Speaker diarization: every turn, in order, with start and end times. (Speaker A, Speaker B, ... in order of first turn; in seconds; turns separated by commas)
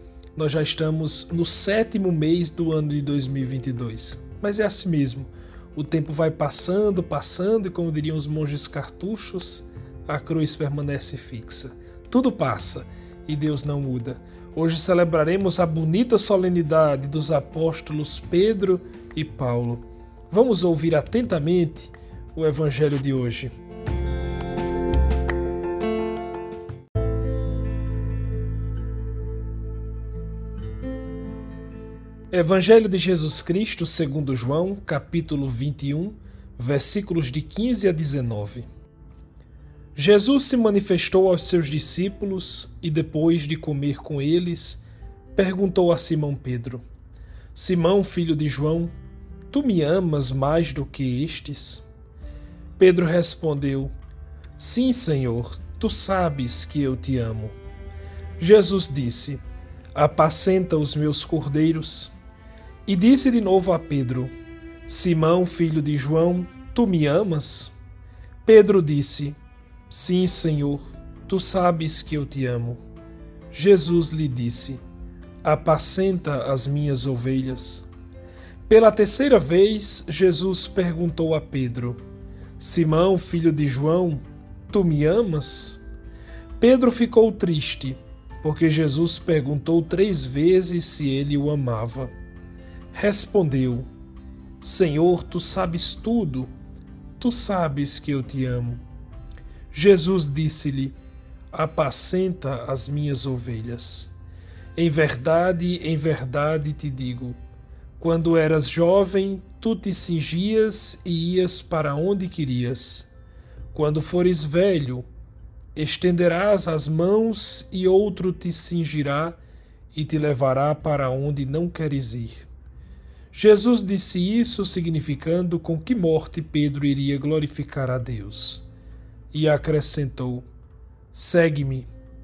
Speaker A: 0.3-23.5, Speaker A: 32.3-38.7, Speaker A: 40.0-46.8, Speaker A: 47.5-48.9, Speaker A: 49.5-51.8, Speaker A: 52.8-53.9, Speaker A: 54.6-57.6, Speaker A: 58.4-59.4, Speaker A: 60.0-62.1, Speaker A: 62.9-64.3, Speaker A: 64.9-67.8, Speaker A: 68.4-69.4, Speaker A: 69.9-72.8, Speaker A: 73.5-74.8, Speaker A: 75.4-77.9, Speaker A: 78.7-82.0, Speaker A: 82.6-85.8, Speaker A: 86.6-92.1, Speaker A: 92.9-93.9, Speaker A: 94.6-96.5, Speaker A: 97.2-98.8, Speaker A: 99.7-101.0, Speaker A: 101.5-104.1, Speaker A: 104.8-107.4, Speaker A: 108.0-113.1, Speaker A: 113.7-115.0, Speaker A: 115.7-119.4, Speaker A: 119.9-122.5, Speaker A: 123.3-128.7, Speaker A: 129.3-130.5, Speaker A: 131.1-131.9